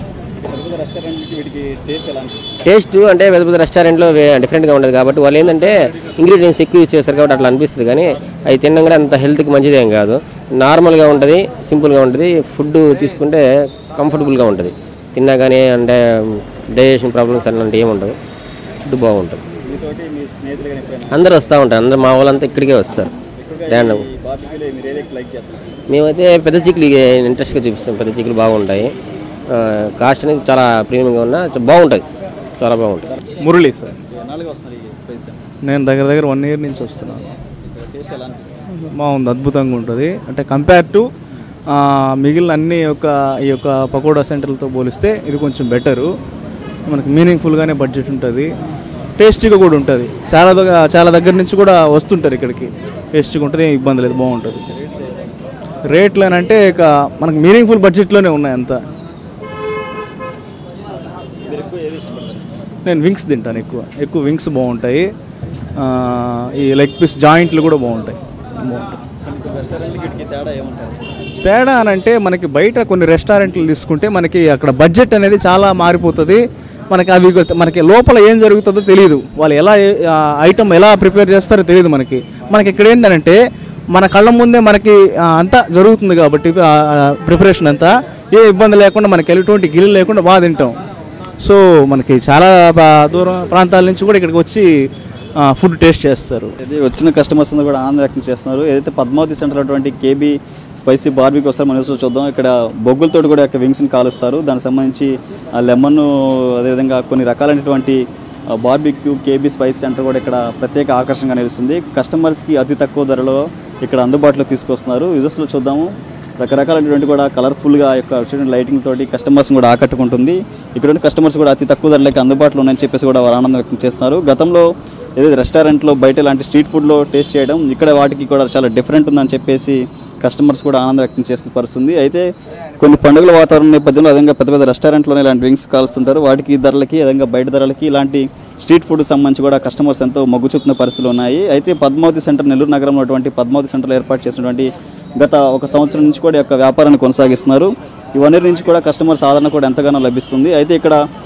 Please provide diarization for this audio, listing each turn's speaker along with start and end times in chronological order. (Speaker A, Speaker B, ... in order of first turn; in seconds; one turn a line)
Speaker A: 0.4-2.5
Speaker B: 2.6-18.1
Speaker B: 18.8-19.4
Speaker A: 19.6-21.5
Speaker B: 21.1-23.1
Speaker A: 23.4-25.7
Speaker B: 23.7-24.0
Speaker B: 25.9-28.9
Speaker B: 29.5-32.0
Speaker B: 32.6-33.1
Speaker C: 33.4-34.0
Speaker A: 34.1-35.4
Speaker C: 35.6-37.3
Speaker A: 37.6-38.6
Speaker C: 38.7-41.1
Speaker C: 41.7-46.1
Speaker C: 46.9-48.5
Speaker C: 49.2-54.6
Speaker A: 54.7-55.3
Speaker C: 55.9-58.8
Speaker A: 61.5-62.5
Speaker C: 62.8-65.1
Speaker C: 65.8-69.0
Speaker A: 69.2-71.3
Speaker C: 71.4-83.4
Speaker C: 83.9-90.8
Speaker C: 91.4-94.9
Speaker C: 95.4-96.5
Speaker A: 96.6-108.0
Speaker A: 108.5-132.2
Speaker A: 132.8-151.0